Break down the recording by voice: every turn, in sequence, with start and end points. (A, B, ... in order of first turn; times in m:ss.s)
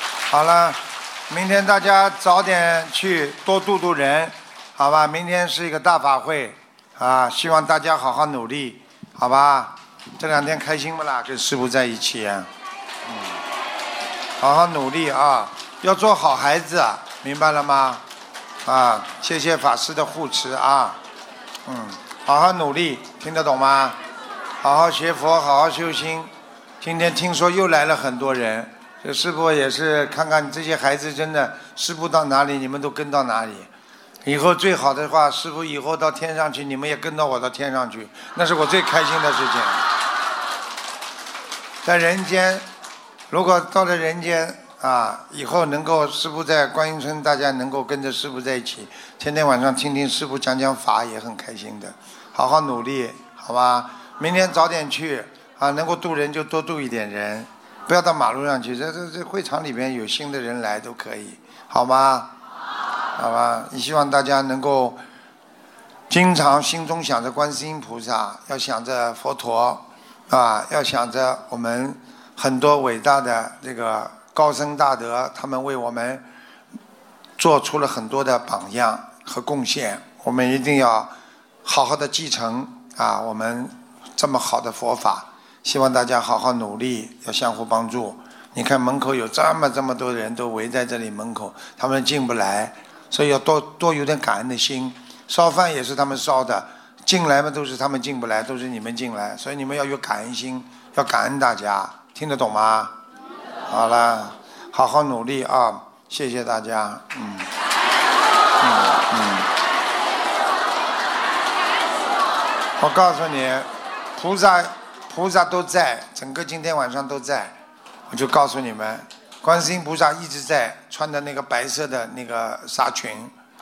0:00.3-0:12.5 A
0:13.1-0:13.4 A
0:14.4-0:18.0 A
0:18.6-0:21.0 A
0:21.6-0:24.0 A
0:24.6-0:33.7 A
0:34.2-0:39.9 A
0:41.8-0:42.7 A
0:43.3-1:02.3 A
1:03.1-1:05.0 A
1:06.1-1:16.2 A
1:17.4-1:21.1 A
1:21.6-1:42.9 A
1:43.7-1:47.5 A
1:48.6-1:49.5 A
1:52.8-1:57.6 A
1:58.1-2:03.3 A